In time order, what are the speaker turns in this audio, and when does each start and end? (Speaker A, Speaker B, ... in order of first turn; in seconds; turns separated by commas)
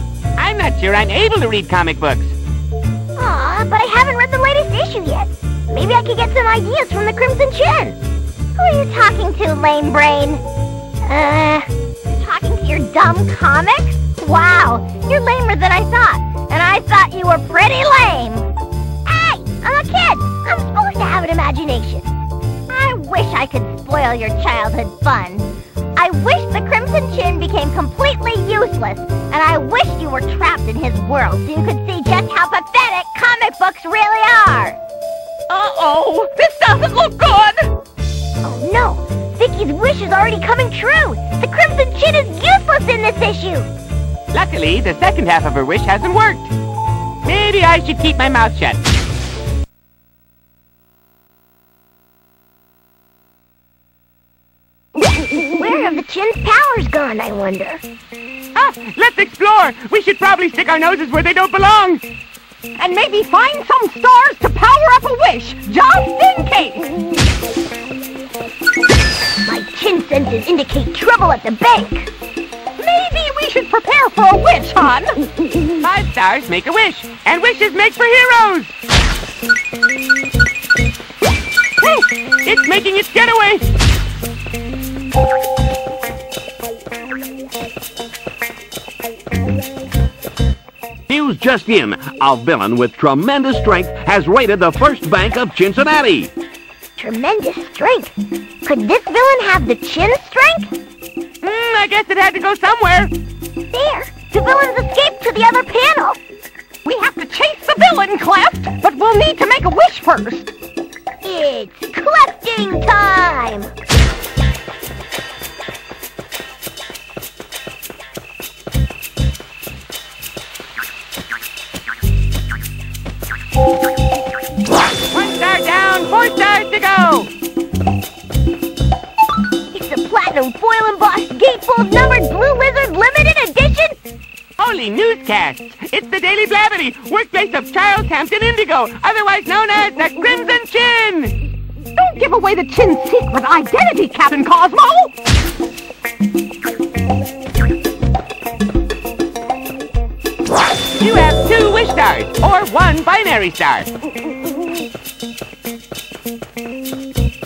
Speaker A: 0.4-2.4, Speaker B: 3.2-8.0, Speaker B: 8.6-10.4, Speaker B: 11.1-18.5, Speaker B: 19.1-22.1, Speaker B: 22.7-34.8, Speaker C: 35.5-37.7, Speaker B: 38.4-43.7, Speaker A: 44.3-46.5, Speaker A: 47.2-48.8, Speaker B: 55.6-57.8, Speaker A: 58.5-62.0, Speaker C: 62.8-66.9, Speaker B: 69.4-72.1, Speaker C: 72.8-75.1, Speaker A: 75.8-78.7, Speaker A: 81.8-83.6, Speaker D: 91.1-96.3, Speaker B: 97.0-98.1, Speaker B: 98.6-100.7, Speaker A: 101.4-103.1, Speaker B: 103.7-106.2, Speaker C: 106.8-110.5, Speaker B: 111.2-113.7, Speaker A: 125.1-127.3, Speaker B: 129.7-134.0, Speaker A: 134.6-141.3, Speaker C: 142.0-145.1, Speaker A: 151.0-153.9